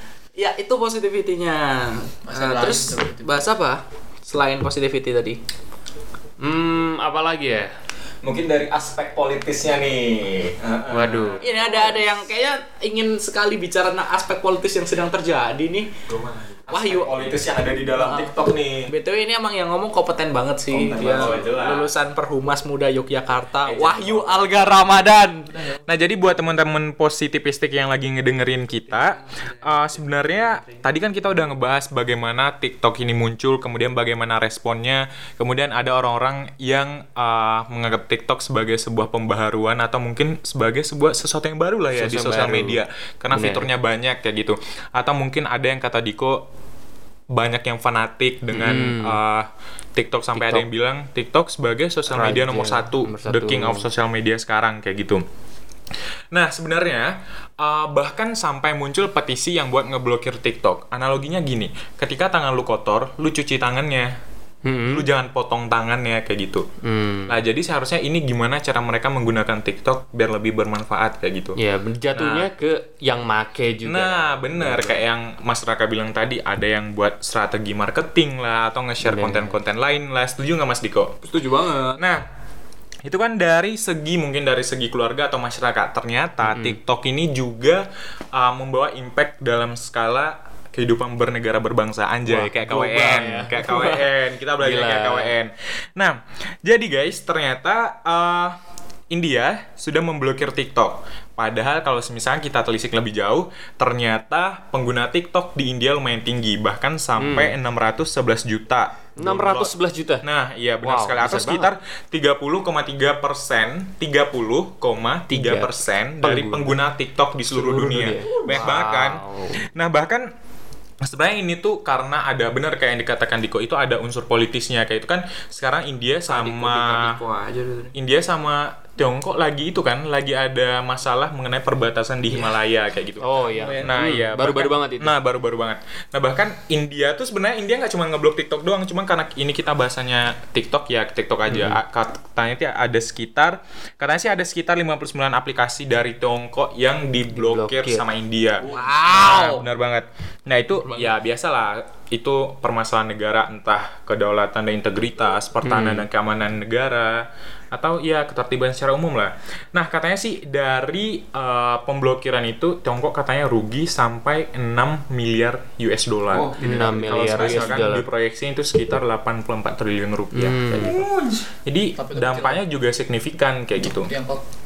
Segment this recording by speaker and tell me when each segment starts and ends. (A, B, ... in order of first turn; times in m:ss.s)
0:00.4-0:05.4 A
0:02.3-0:03.4 B
0:06.4-0:07.7 C
0:08.2-0:11.9 D
0:10.9-0:11.4 C
0:11.4-0:15.9 A
0:16.1-0:18.9 D
0:16.7-0:17.2 A
0:17.9-0:18.3 A
0:18.9-0:25.5 A
0:20.7-0:21.8 D
0:20.9-0:21.8 E
0:23.6-0:24.7 D
0:25.5-0:25.8 B
0:25.9-0:46.4 E
0:28.9-0:30.8 A
0:41.9-0:42.8 C
0:43.3-0:43.7 C
0:47.3-0:55.2 E
0:48.5-0:49.2 C
0:50.3-0:50.6 C
0:52.1-0:53.9 C
0:56.3-1:04.1 E
1:04.6-1:05.1 C
1:04.9-1:06.6 E
1:06.8-1:07.4 C
1:07.3-1:11.6 E
1:11.6-1:15.0 C
1:12.1-1:12.5 E
1:13.8-1:21.2 E
1:19.0-1:19.6 C
1:21.2-1:22.0 A
1:22.0-1:22.2 E
1:23.0-1:38.6 E
1:26.4-1:26.8 C
1:32.3-1:35.3 C
1:32.8-1:33.4 A
1:39.1-2:00.3 E
1:47.2-1:47.6 C
1:49.2-1:50.2 C
1:50.8-1:51.7 C
1:55.3-1:56.8 C
1:57.5-1:59.6 C
1:58.4-1:58.7 A
2:01.0-2:07.2 E
2:06.2-2:07.9 A
2:07.9-2:13.2 E
2:13.2-2:15.1 C
2:13.4-2:13.9 A
2:13.8-2:54.1 E
2:21.5-2:21.8 C
2:27.3-2:28.0 C
2:28.6-2:29.6 A
2:35.6-2:36.1 C
2:46.3-2:47.9 D
2:46.6-2:48.0 C
2:50.3-2:51.0 C
2:50.8-2:51.5 D
2:52.0-2:52.6 B
2:54.0-2:54.4 B